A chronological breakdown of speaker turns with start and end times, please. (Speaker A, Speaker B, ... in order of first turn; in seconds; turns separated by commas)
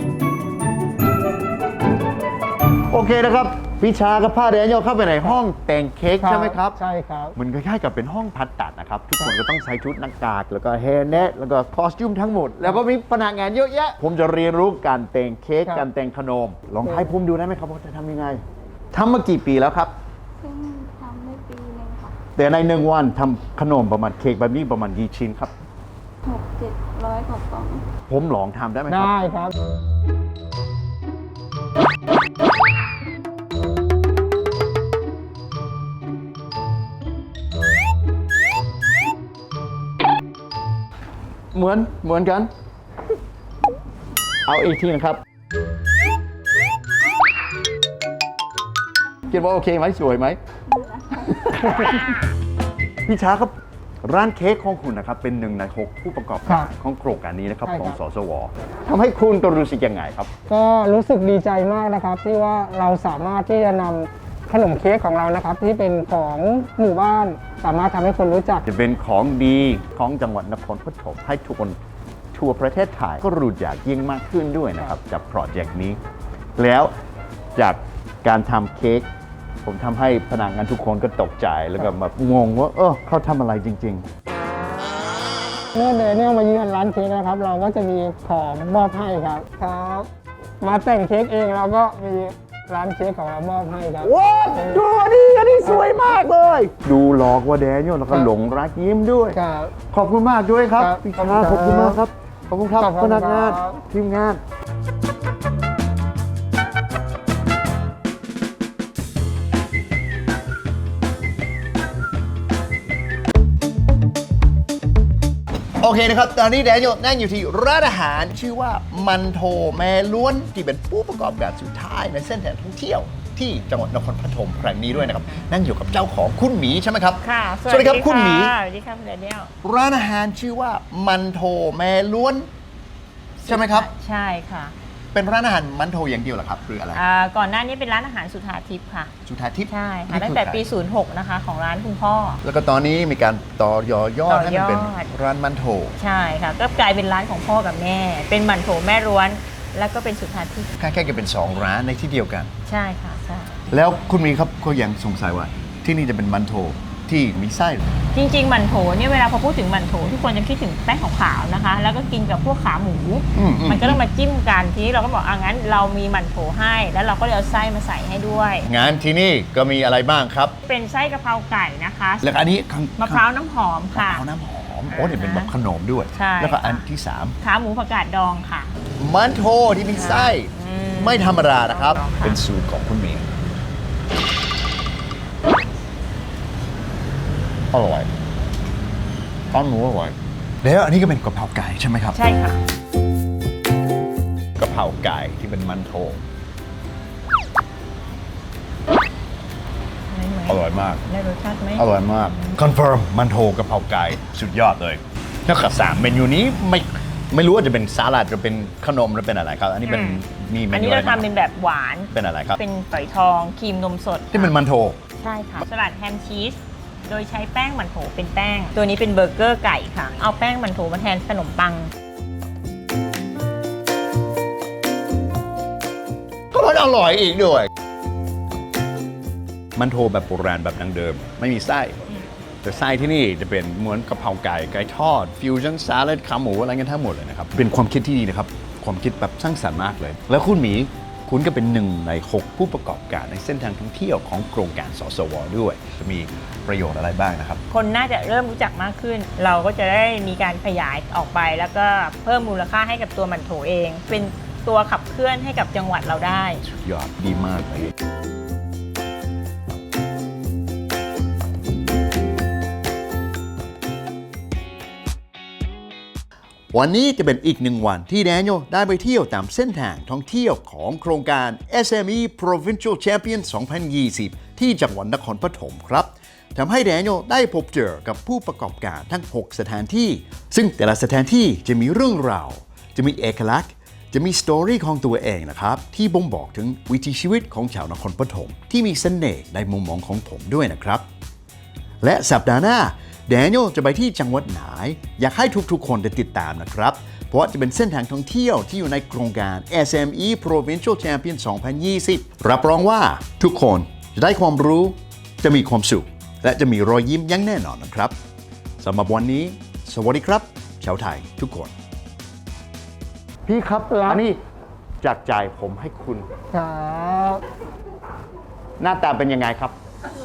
Speaker A: 2.9-6.8, Speaker B: 6.2-7.3, Speaker A: 7.3-20.0, Speaker C: 20.4-22.2, Speaker A: 22.4-25.6, Speaker C: 26.2-27.9, Speaker A: 28.1-29.2, Speaker B: 28.9-29.5, Speaker A: 41.5-42.5, Speaker A: 44.5-45.2, Speaker A: 49.3-50.4, Speaker C: 50.8-51.5, Speaker A: 51.5-52.0, Speaker A: 53.1-60.3, Speaker B: 57.6-58.0, Speaker B: 60.5-68.6, Speaker A: 68.6-71.8, Speaker A: 72.3-76.0, Speaker A: 76.6-76.9, Speaker A: 77.6-79.1, Speaker A: 79.6-84.1, Speaker B: 85.8-90.1, Speaker B: 90.6-94.1, Speaker A: 94.0-104.4, Speaker B: 99.3-99.7, Speaker B: 100.8-102.0, Speaker B: 102.8-103.7, Speaker A: 115.8-128.6, Speaker D: 125.1-125.4, Speaker D: 127.2-129.5, Speaker A: 129.6-132.5, Speaker D: 133.4-134.7, Speaker A: 133.5-133.9, Speaker A: 135.1-137.1, Speaker D: 136.9-139.1, Speaker A: 139.2-140.7, Speaker D: 139.7-142.4, Speaker A: 142.4-146.0, Speaker D: 144.3-145.1, Speaker D: 146.0-150.7, Speaker A: 150.8-152.5, Speaker D: 152.7-153.6, Speaker A: 153.7-157.9, Speaker D: 158.1-168.7, Speaker A: 163.3-164.0, Speaker A: 168.6-170.6, Speaker D: 170.6-172.3, Speaker A: 172.2-173.2, Speaker D: 173.0-174.2, Speaker A: 173.9-177.4, Speaker D: 174.9-175.5, Speaker D: 176.1-176.9, Speaker D: 177.4-178.7, Speaker A: 179.0-183.3, Speaker D: 179.9-182.4, Speaker A: 187.7-188.1, Speaker A: 189.5-192.2, Speaker D: 192.1-192.6, Speaker A: 194.6-196.2, Speaker D: 200.1-202.6, Speaker A: 200.5-201.0, Speaker A: 201.8-211.3, Speaker D: 209.9-210.2, Speaker D: 210.7-214.5, Speaker A: 212.1-212.6, Speaker A: 214.3-215.0, Speaker D: 215.2-216.6, Speaker D: 217.1-221.9, Speaker A: 226.5-227.7, Speaker A: 229.8-232.1, Speaker A: 232.6-247.6, Speaker D: 247.7-256.6, Speaker A: 256.6-257.9, Speaker A: 266.7-291.1, Speaker A: 292.0-308.1, Speaker A: 308.8-311.7, Speaker A: 313.5-314.4, Speaker A: 315.0-316.3, Speaker B: 316.5-317.4, Speaker A: 318.8-319.8